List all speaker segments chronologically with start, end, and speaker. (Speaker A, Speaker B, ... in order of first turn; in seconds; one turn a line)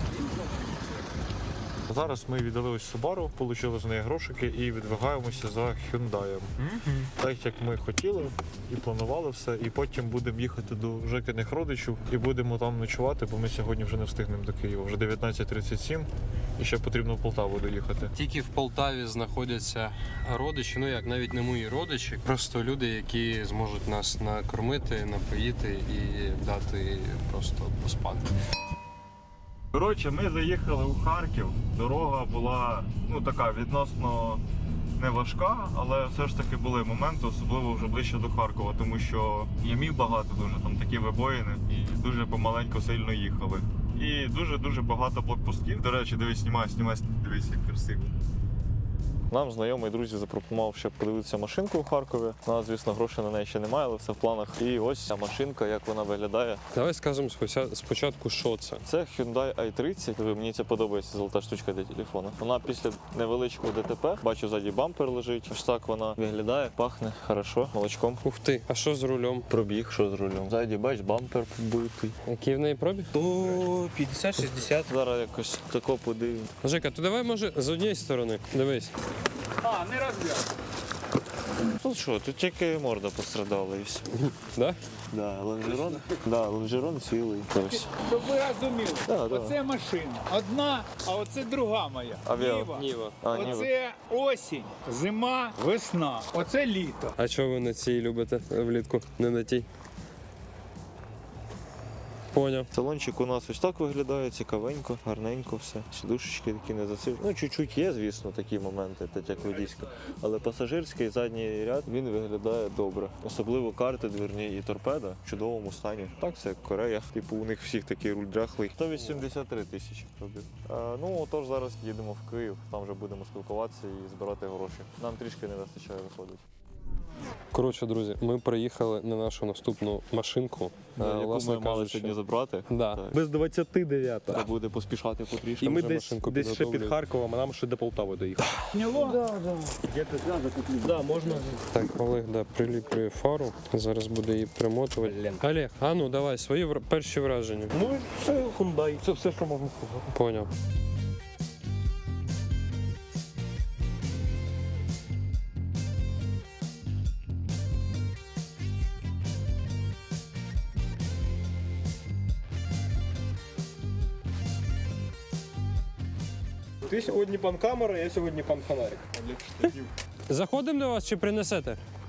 Speaker A: 1.9-6.5
Speaker B: 6.6-7.1
Speaker A: 7.2-18.1
Speaker C: 18.1-28.3
Speaker A: 29.7-34.4
Speaker A: 35.0-48.1
Speaker A: 49.3-56.6
Speaker C: 56.7-58.8
Speaker A: 58.8-68.2
Speaker C: 68.2-69.5
Speaker A: 69.5-72.2
Speaker C: 72.2-73.2
Speaker B: 73.1-74.9
Speaker A: 74.7-76.5
Speaker C: 76.6-78.9
Speaker D: 79.6-80.4
Speaker A: 81.8-84.1
Speaker C: 84.2-84.8
Speaker A: 85.1-87.9
Speaker D: 87.6-97.1
Speaker A: 89.0-89.6
Speaker A: 92.2-93.7
Speaker C: 92.7-93.5
Speaker C: 97.2-99.7
Speaker C: 102.3-102.7
Speaker A: 102.7-126.4
Speaker C: 127.5-132.2
Speaker A: 131.0-133.2
Speaker C: 132.7-133.0
Speaker B: 133.1-134.5
Speaker A: 134.3-135.9
Speaker C: 135.6-137.0
Speaker B: 135.6-141.7
Speaker D: 138.7-139.2
Speaker C: 141.7-147.8
Speaker B: 145.0-145.4
Speaker B: 147.7-150.1
Speaker C: 150.1-150.5
Speaker B: 166.8-169.7
Speaker C: 170.3-171.8